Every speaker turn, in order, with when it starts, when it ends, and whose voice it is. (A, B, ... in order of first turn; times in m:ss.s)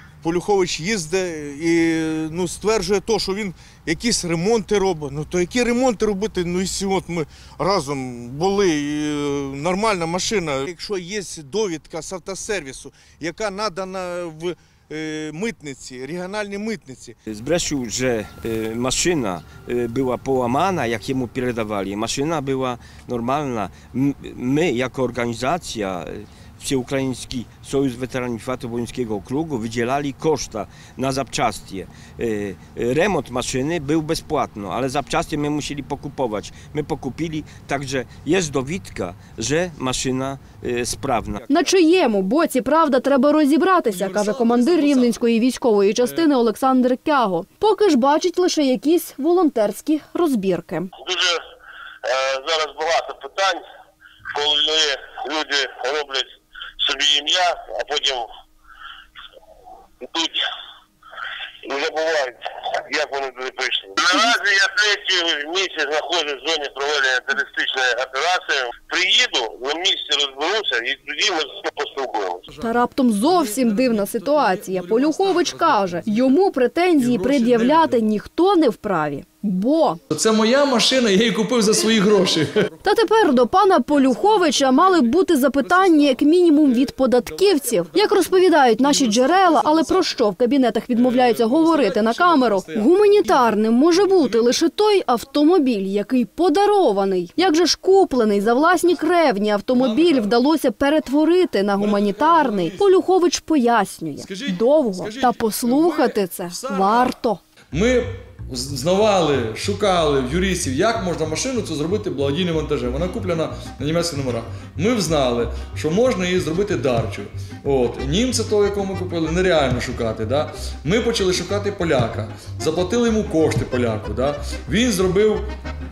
0:00.2-0:17.2 A
0:17.3-0:42.3 B
0:41.5-0:50.9 C
0:43.9-0:45.2 D
0:46.0-0:46.3 D
0:51.0-0:51.4 E
0:52.0-0:53.6 E
0:54.3-0:58.3 E
1:00.0-1:00.4 E
1:01.6-1:12.4 E
1:12.5-1:16.4 D
1:12.6-1:20.0 C
1:17.0-1:18.0 D
1:20.1-1:30.2 D
1:22.8-1:47.4 C
1:30.9-1:34.6 D
1:38.6-1:38.9 D
1:39.7-1:40.3 D
1:41.8-1:43.0 D
1:44.2-1:47.2 D
1:47.7-2:05.4 D